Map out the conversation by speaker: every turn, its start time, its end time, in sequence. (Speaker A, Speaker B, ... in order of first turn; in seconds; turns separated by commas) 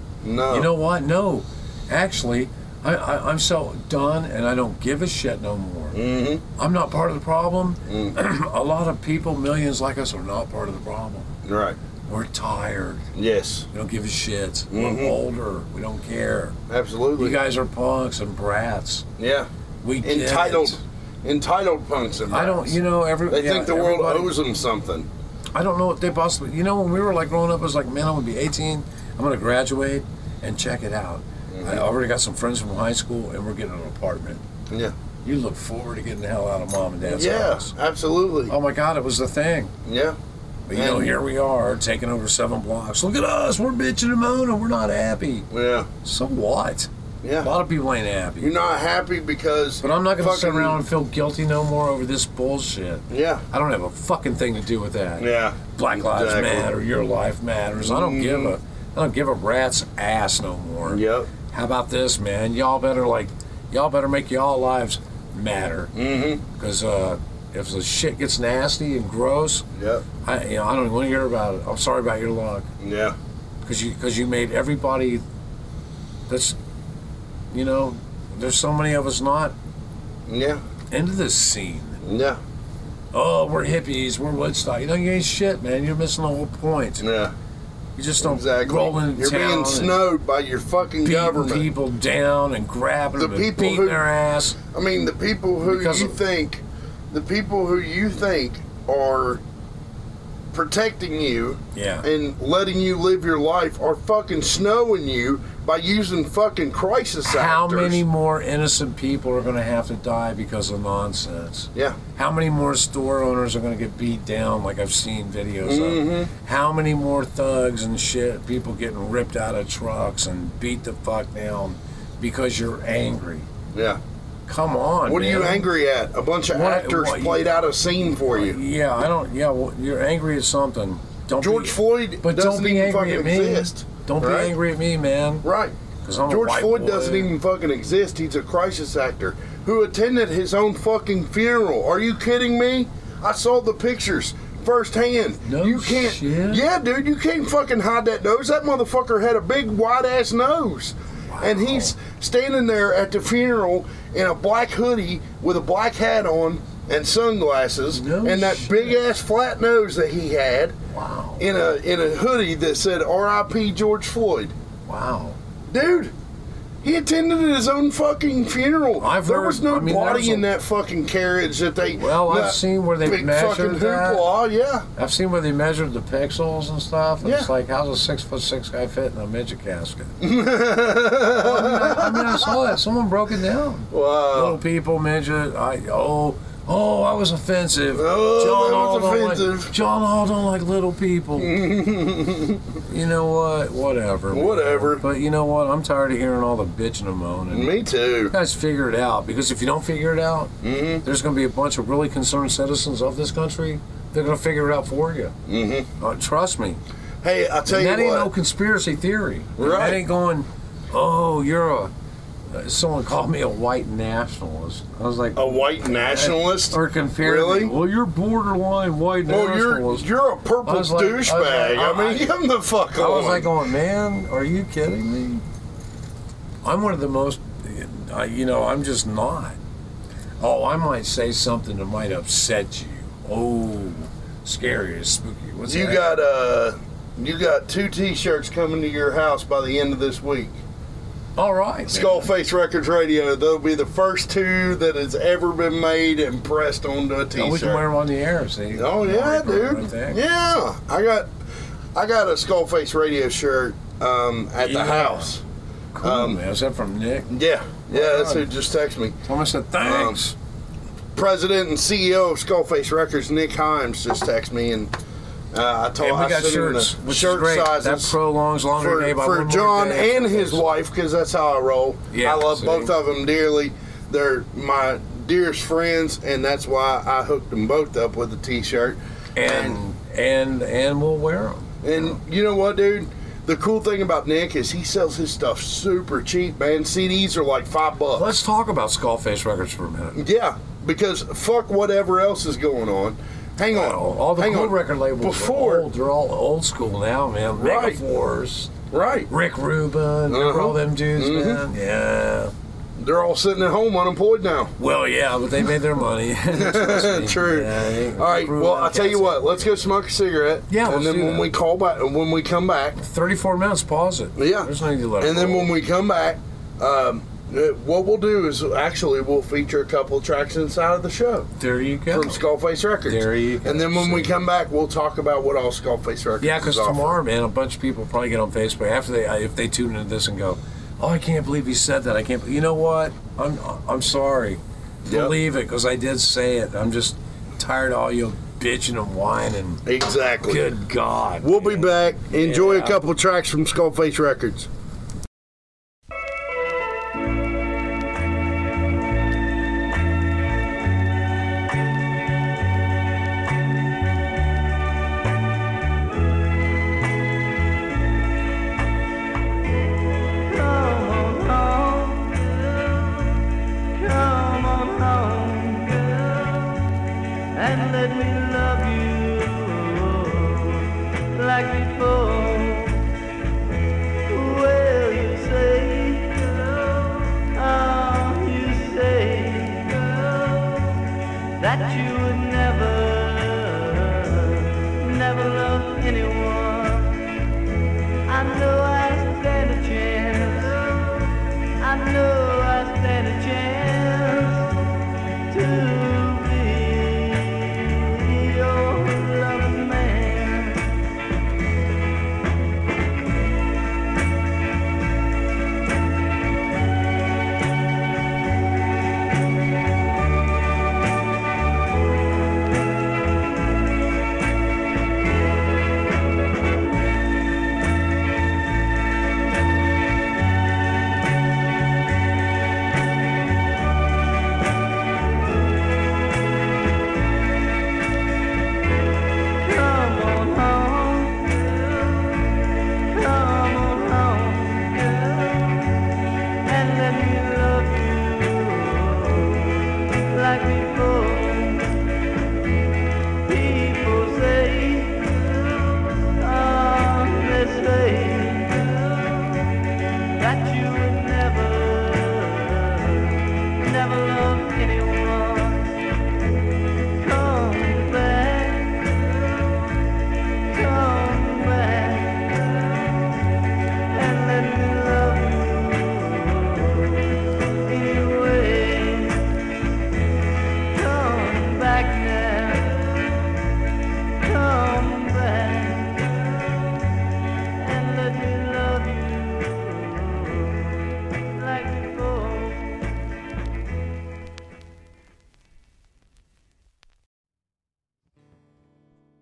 Speaker A: 0.2-0.7, Speaker B: 0.5-6.0, Speaker A: 5.9-6.4, Speaker B: 6.6-11.3, Speaker A: 7.9-8.2, Speaker A: 11.4-11.8, Speaker B: 12.1-13.1, Speaker A: 13.2-13.7, Speaker B: 13.7-16.6, Speaker A: 14.7-15.2, Speaker A: 16.7-17.4, Speaker B: 17.2-19.1, Speaker A: 19.2-19.5, Speaker B: 19.8-20.8, Speaker A: 20.0-22.8, Speaker B: 22.3-24.4, Speaker A: 23.3-25.1, Speaker B: 25.5-34.4, Speaker A: 31.5-31.9, Speaker B: 35.2-37.7, Speaker A: 37.0-38.5, Speaker B: 38.5-39.7, Speaker A: 39.9-40.2, Speaker B: 40.7-45.5, Speaker A: 40.7-41.1, Speaker A: 45.5-45.9, Speaker B: 46.0-46.9, Speaker A: 47.2-47.5, Speaker B: 47.4-48.5, Speaker A: 48.4-50.8, Speaker B: 49.8-65.9, Speaker A: 53.1-53.4, Speaker A: 55.2-56.7, Speaker A: 57.8-58.5, Speaker A: 60.9-61.3, Speaker A: 66.0-66.4, Speaker B: 66.5-69.7, Speaker A: 69.8-70.0, Speaker B: 70.2-72.7, Speaker A: 72.8-73.2, Speaker B: 73.7-75.2, Speaker B: 76.3-76.6, Speaker B: 77.5-79.5, Speaker A: 80.3-80.6, Speaker B: 80.9-82.0, Speaker A: 82.0-82.4, Speaker B: 83.1-87.1, Speaker A: 87.0-87.3, Speaker B: 88.0-90.0, Speaker A: 88.2-91.7, Speaker B: 91.0-94.6, Speaker A: 93.2-94.0, Speaker A: 94.7-99.4, Speaker B: 95.6-96.2, Speaker A: 100.5-108.0, Speaker B: 101.7-102.0, Speaker B: 107.3-123.5, Speaker A: 115.6-116.3, Speaker A: 123.7-124.0, Speaker B: 124.5-125.7, Speaker A: 125.1-128.6, Speaker B: 126.5-127.5, Speaker B: 128.2-135.5, Speaker A: 131.4-134.5, Speaker A: 135.4-135.8, Speaker B: 136.0-137.3, Speaker A: 136.3-160.8, Speaker B: 145.4-146.7, Speaker B: 151.3-151.9, Speaker B: 157.9-159.0, Speaker B: 160.9-161.5, Speaker A: 161.4-164.5, Speaker B: 164.9-165.4, Speaker A: 165.7-166.1, Speaker A: 166.8-174.9, Speaker B: 169.0-170.5, Speaker B: 171.8-174.3, Speaker B: 175.0-180.2, Speaker A: 177.2-177.5, Speaker A: 180.2-182.6, Speaker B: 181.3-191.6, Speaker A: 183.9-184.6, Speaker A: 187.9-189.7, Speaker A: 191.4-192.7, Speaker B: 192.9-197.7, Speaker A: 194.3-195.1, Speaker A: 197.5-198.3, Speaker B: 198.3-205.3, Speaker A: 200.6-201.0, Speaker A: 205.5-205.9, Speaker B: 206.0-206.8, Speaker A: 207.2-208.3, Speaker B: 207.7-211.9, Speaker A: 209.6-210.0, Speaker B: 212.5-220.1, Speaker A: 215.3-217.8, Speaker A: 219.3-223.5, Speaker B: 220.7-222.3, Speaker B: 222.9-225.4, Speaker B: 226.6-229.6, Speaker B: 230.4-236.1, Speaker A: 235.7-240.6, Speaker B: 241.4-242.3, Speaker A: 241.9-247.8, Speaker B: 247.3-250.2, Speaker A: 248.7-251.3, Speaker A: 251.9-255.4, Speaker B: 254.6-255.3, Speaker B: 255.9-257.3, Speaker A: 256.0-256.4, Speaker A: 257.3-259.2, Speaker B: 257.9-258.5, Speaker B: 259.2-260.4, Speaker A: 259.8-260.2, Speaker A: 261.1-264.9, Speaker A: 265.5-268.2, Speaker B: 266.0-270.6, Speaker A: 268.8-279.8, Speaker B: 272.1-273.0, Speaker B: 279.4-282.2, Speaker A: 281.8-288.3, Speaker B: 288.1-290.2, Speaker A: 290.1-295.9, Speaker B: 293.7-298.8, Speaker A: 297.6-298.0, Speaker A: 298.9-299.3, Speaker B: 299.3-302.5, Speaker A: 300.3-301.6, Speaker A: 303.0-304.8, Speaker B: 304.8-309.7, Speaker A: 306.5-313.0, Speaker B: 310.7-311.5, Speaker B: 313.0-315.7, Speaker A: 314.4-321.5, Speaker B: 321.6-322.4, Speaker A: 322.1-327.2, Speaker B: 323.1-324.4, Speaker B: 326.4-339.8, Speaker A: 335.1-335.4, Speaker A: 339.9-340.7, Speaker B: 340.4-343.0, Speaker A: 341.4-344.7, Speaker C: 360.3-367.0, Speaker C: 367.5-373.1, Speaker C: 374.3-387.3, Speaker C: 388.3-401.0, Speaker C: 429.6-436.1, Speaker C: 436.6-442.2, Speaker C: 443.4-449.8, Speaker C: 450.4-456.0, Speaker C: 457.1-460.1, Speaker C: 460.6-463.4, Speaker C: 464.1-469.6, Speaker C: 470.9-473.6, Speaker C: 474.4-477.0, Speaker C: 477.8-483.2